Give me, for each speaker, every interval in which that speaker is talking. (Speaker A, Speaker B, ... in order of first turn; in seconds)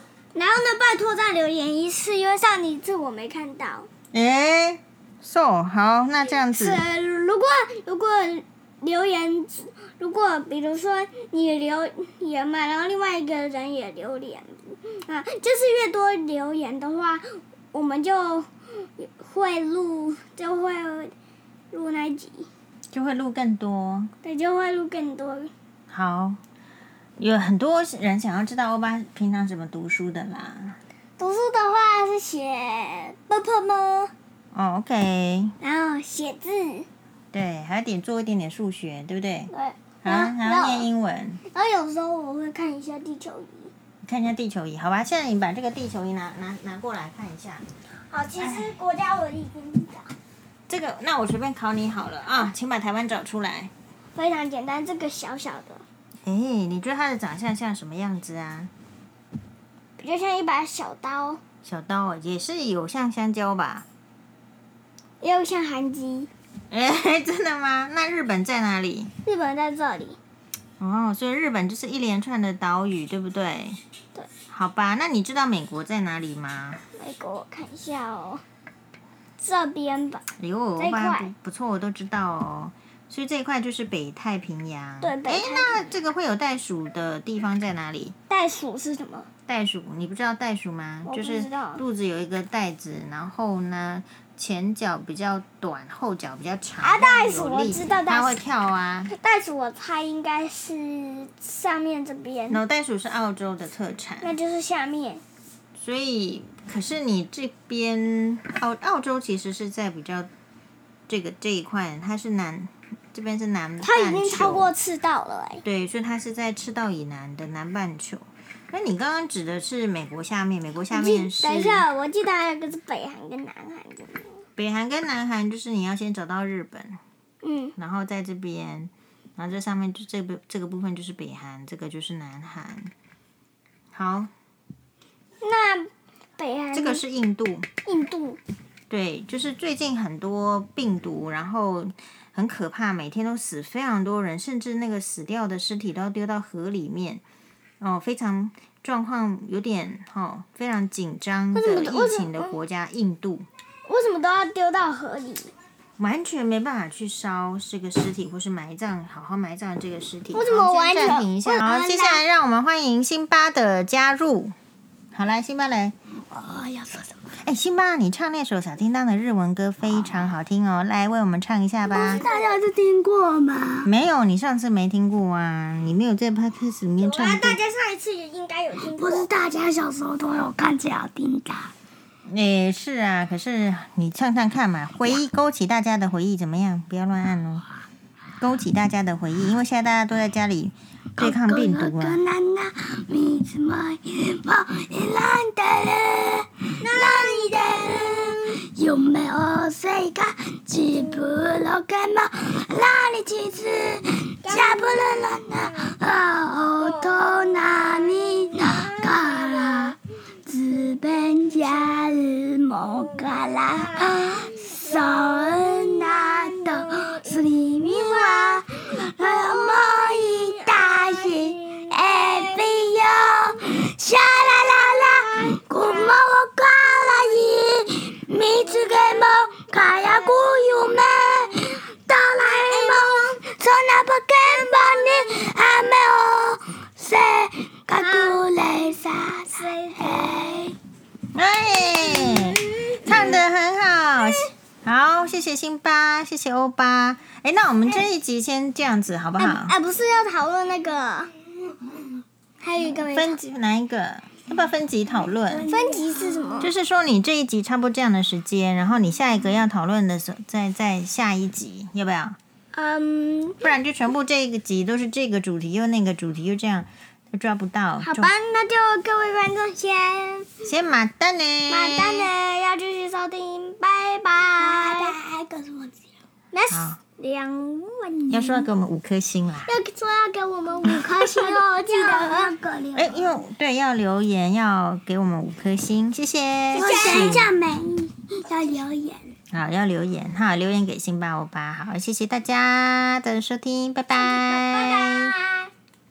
Speaker A: 0.3-3.9, 6.5-21.1, 21.7-22.5, 24.2-25.5, 31.2-34.1, 35.6-36.9, 39.5-40.9, 41.5-43.7, 48.1-50.1, 54.1-55.9, 60.0-61.4, 65.2-66.3, 69.2-70.2, 77.0-78.4, 79.4-80.2, 80.8-81.3, 85.0-85.9, 88.3-89.3, 91.0-91.8, 96.8-98.4, 99.1-102.6, 104.2-105.2, 113.8-115.7, 120.9-124.4, 127.4-127.8, 135.4-137.0, 137.8-138.4, 151.5-152.6, 153.9-155.5, 160.3-162.2, 172.0-172.5, 177.0-179.3, 196.8-198.6, 204.4-205.0, 207.8-209.9, 212.9-218.7, 219.2-222.6, 225.2-226.2, 232.4-233.4, 238.0-238.4, 239.5-240.7, 242.1-243.4, 249.4-251.3, 252.6-253.4, 255.7-256.7, 262.7-263.7, 268.0-270.5, 271.7-275.2, 276.5-278.7, 279.7-282.5, 286.8-289.1, 294.2-295.7
Speaker B: 4.1-6.8, 22.9-24.1, 25.9-26.4, 27.2-30.8, 34.5-35.5, 37.3-39.5, 40.0-41.4, 44.0-47.7, 48.4-48.7, 50.7-53.7, 56.2-58.7, 61.6-63.9, 66.7-69.1, 70.8-73.8, 74.5-76.8, 80.4-88.2, 89.5-99.1, 102.5-104.4, 105.8-110.3, 111.1-114.7, 115.7-121.8, 124.6-127.0, 127.8-132.9, 133.9-134.3, 136.7-137.7, 138.9-147.2, 147.8-153.5, 156.0-164.6, 165.1-165.9, 167.4-172.2, 173.8-177.6, 182.3-187.7, 188.4-192.2, 241.3-249.8, 253.1-255.7, 256.6-262.4, 263.6-268.3, 270.6-272.3, 276.7-277.0, 278.3-279.7, 282.9-287.5, 289.5-295.3
Speaker C: 166.3-167.1, 171.9-173.9, 178.9-181.7, 191.2-240.8, 255.7-256.6, 274.6-275.9, 281.3-283.1, 286.8-287.4